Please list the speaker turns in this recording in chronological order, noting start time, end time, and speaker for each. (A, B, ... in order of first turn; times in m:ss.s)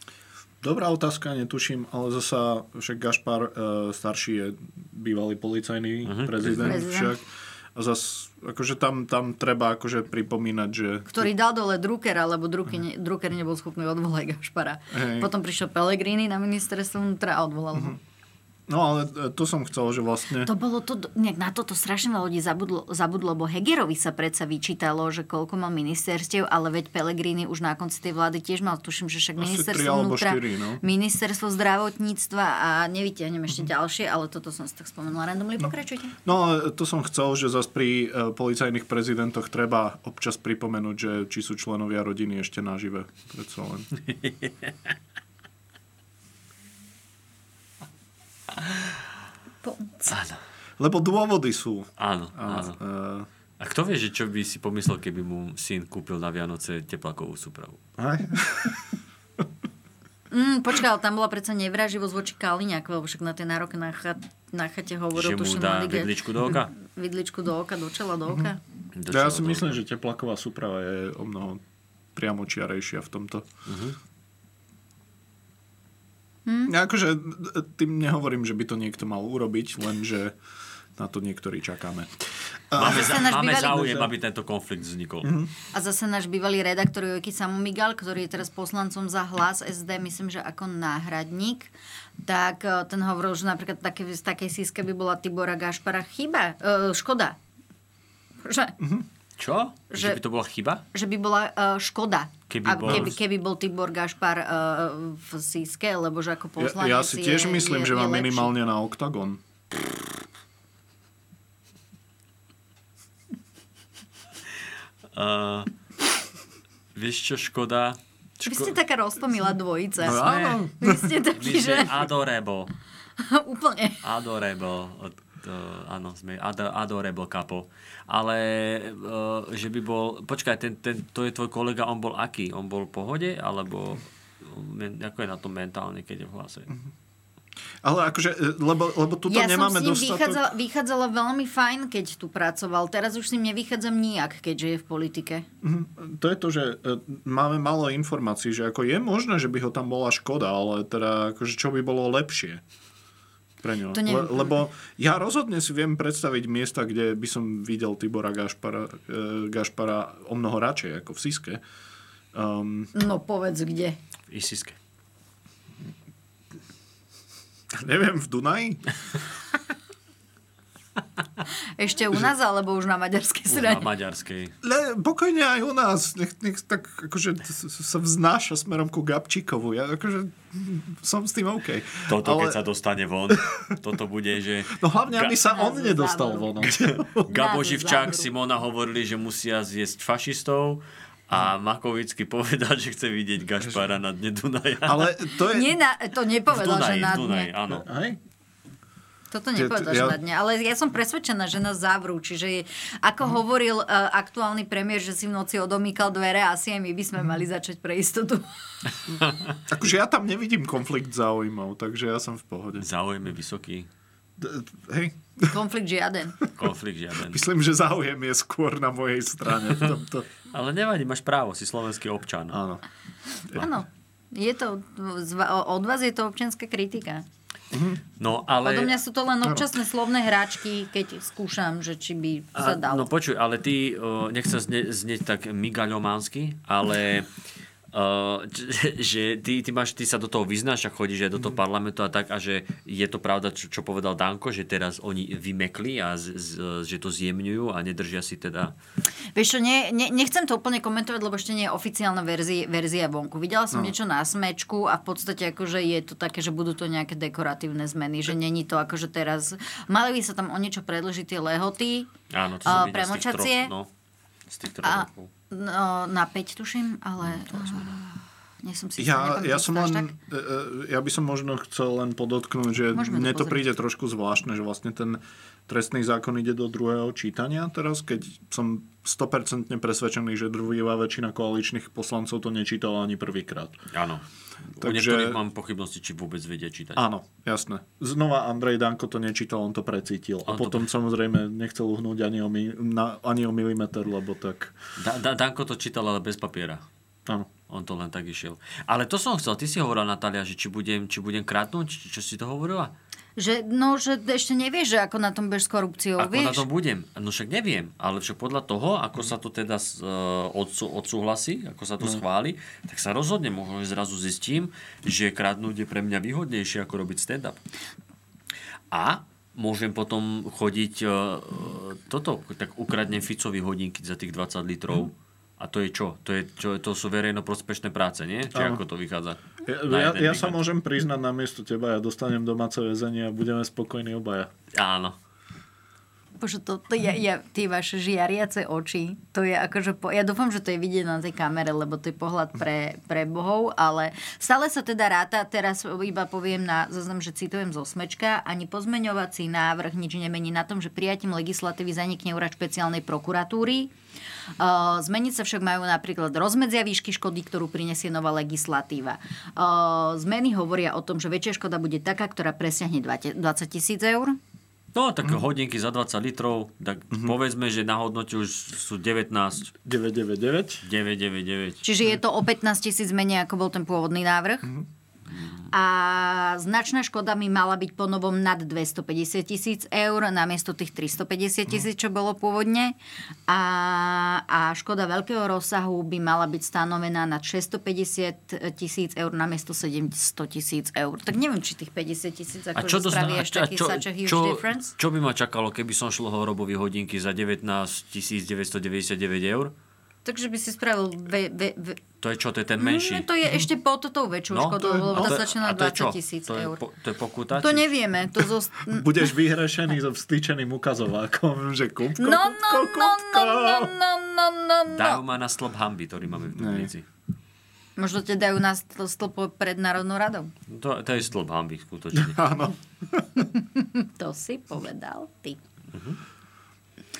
0:00.6-0:07.2 A
0:06.0-0:06.8 B
0:06.6-0:07.1 C
0:07.7-0:11.3 A
0:11.1-0:18.0 C
0:14.9-0:15.3 A
0:17.7-0:18.0 A
0:18.7-0:20.5 A
0:20.4-0:36.2 C
0:29.4-0:30.8 A
0:35.6-0:43.9 A
0:44.1-0:44.7 B
0:48.6-0:48.9 B
0:49.6-0:50.1 C
0:50.1-0:50.4 B
0:50.8-0:53.3 A
0:52.0-0:52.8 B
0:53.6-0:57.8 B
0:58.0-0:58.9 A
1:00.3-1:06.1 C
1:05.1-1:06.7 B
1:06.8-1:08.6 C
1:08.9-1:09.8 B
1:09.1-1:11.6 A
1:12.1-1:13.5 A
1:13.6-1:14.0 B
1:16.4-1:16.7 C
1:16.6-1:20.4 A
1:21.0-1:24.1 A
1:22.8-1:25.3 B
1:22.8-1:24.0 C
1:25.2-1:25.5 A
1:25.7-1:31.7 C
1:32.2-1:37.4 C
1:38.4-1:38.8 C
1:38.8-1:39.0 A
1:39.4-1:40.8 B
1:39.9-1:40.2 C
1:40.9-1:48.5 C
1:42.5-1:43.1 B
1:42.8-1:43.1 A
1:46.6-1:49.4 A
1:55.1-1:55.7 B
1:56.9-1:58.8 B
1:58.4-2:02.0 C
2:00.0-2:01.1 A
2:00.1-2:00.6 B
2:01.3-2:02.7 B
2:03.2-2:04.0 C
2:04.0-2:16.7 B
2:17.8-2:20.4 A
2:19.3-2:25.4 C
2:25.6-2:32.6 A
2:33.6-2:41.6 A
2:33.9-2:34.6 C
2:42.3-2:42.9 A
2:42.9-2:44.0 C
2:44.3-2:44.8 B
2:47.7-2:48.8 A
2:51.8-2:53.8 C
2:53.5-2:54.5 B
2:54.6-3:02.6 A
3:02.1-3:05.3 B
3:04.7-3:07.3 A
3:05.4-3:06.5 C
3:07.2-3:15.2 B
3:07.2-3:08.3 C
3:14.8-3:15.8 A
3:15.5-3:17.5 C
3:16.5-3:17.9 B
3:17.7-3:18.2 A
3:19.3-3:28.4 C
3:19.5-3:20.2 A
3:29.7-3:32.8 A
3:32.8-3:33.9 B
3:34.4-3:35.6 A
3:35.5-3:36.4 C
3:36.5-3:37.4 B
3:37.3-3:40.3 A
3:40.5-3:42.6 B
3:42.5-3:42.8 A
3:43.5-3:47.2 C
3:47.7-3:48.0 A
3:48.2-3:49.0 B
3:48.6-3:53.1 C
3:52.5-3:57.3 B
3:57.9-4:08.7 B
4:09.3-4:22.1 C
4:22.3-4:23.9 B
4:22.6-4:23.7 C
4:24.5-4:25.3 B
4:24.8-4:30.1 C
4:27.5-4:27.9 B
4:29.0-4:43.8 A
4:32.9-4:33.7 C
4:43.9-4:47.0 B
4:44.8-4:45.4 A
4:47.0-4:54.7 A
4:50.5-4:50.9 B
4:55.0-4:56.8 B
4:57.7-5:02.9 B
5:03.4-5:06.6 C
5:06.2-5:17.6 B
5:18.9-5:30.6 B
5:28.5-5:28.8 A
5:29.6-5:34.5 A
5:34.7-5:35.2 B
5:36.4-5:53.9 C
5:54.6-6:04.4 C
6:04.9-6:09.7 B
6:09.8-6:10.8 A
6:10.8-6:11.8 B
6:11.8-6:14.7 C
6:15.3-6:15.7 B
6:15.7-6:23.0 C
6:23.5-6:34.9 C
6:32.8-6:39.7 B
6:40.2-6:42.0 C
6:42.2-6:43.3 B
6:42.8-6:46.8 C
6:44.5-6:47.9 B
6:44.8-6:45.4 A
6:47.6-6:49.3 C
6:48.9-6:53.9 A
6:52.2-6:55.2 C
6:54.9-6:57.0 B
6:56.5-6:56.9 A
6:58.0-7:00.5 C
7:00.7-7:02.5 B
7:02.1-7:03.4 A
7:03.4-7:05.6 C
7:05.9-7:06.2 B